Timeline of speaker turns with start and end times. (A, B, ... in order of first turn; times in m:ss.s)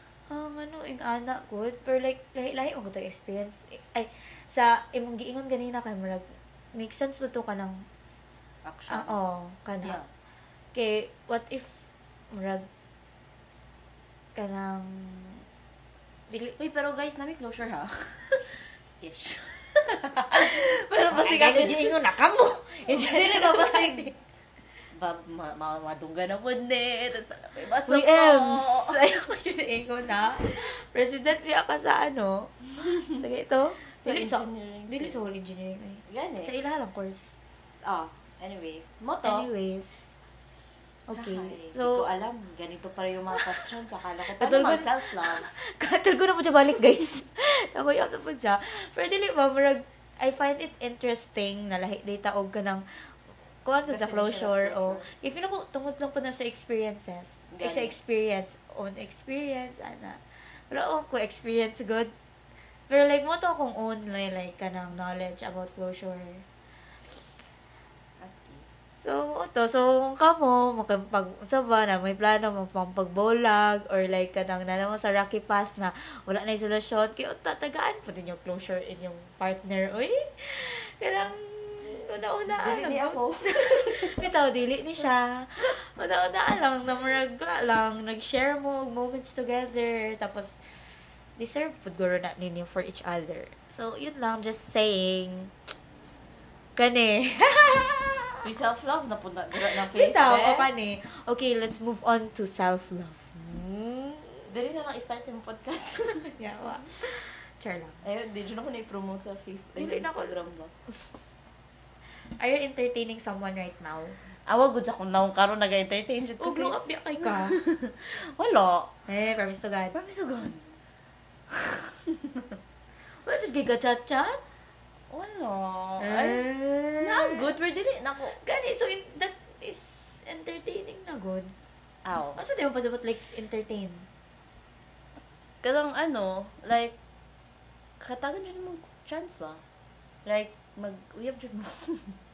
0:00.3-0:07.8 A
0:08.6-0:09.2 B
0:08.9-0:10.0 A
0:09.8-0:10.1 B
0:10.7-0:11.8 A
0:12.3-0:12.7 A
0:14.3-0:15.4 A
0:16.3-0:16.6 A
0:16.6-0:22.0 B
0:20.3-0:24.1 A
0:22.9-0:24.1 B
0:24.9-0:29.0 B
0:27.9-0:37.3 A
0:32.8-0:33.2 B
0:33.8-0:35.2 B
0:36.0-0:36.5 B
0:37.8-0:39.5 B
0:39.2-0:40.1 A
0:41.1-0:42.0 A
0:41.1-0:45.5 B
0:43.3-0:43.6 A
0:44.2-0:53.1 A
0:53.6-1:02.1 A
0:53.8-0:55.1 B
0:57.5-0:58.0 B
1:02.9-1:06.4 A
1:08.2-1:08.7 B
1:09.0-1:35.5 A
1:22.5-1:24.3 B
1:36.8-1:38.4 A
1:38.4-1:40.7 B
1:39.7-1:44.5 A
1:44.5-1:46.3 B
1:46.4-1:48.0 A
1:48.0-1:50.7 B
1:49.8-1:50.4 A
1:52.2-1:54.2 A
1:54.5-1:58.9 B
1:56.4-1:57.6 A
1:59.1-1:59.9 A
1:59.9-2:00.7 B
2:01.5-2:02.5 B
2:03.2-2:04.4 A
2:05.1-2:06.4 B
2:06.0-2:07.4 A
2:07.0-2:08.4 B
2:08.3-2:11.5 A
2:12.0-2:12.4 B
2:12.4-2:14.1 A
2:15.6-2:16.9 B
2:18.0-2:19.6 B
2:20.2-2:22.2 B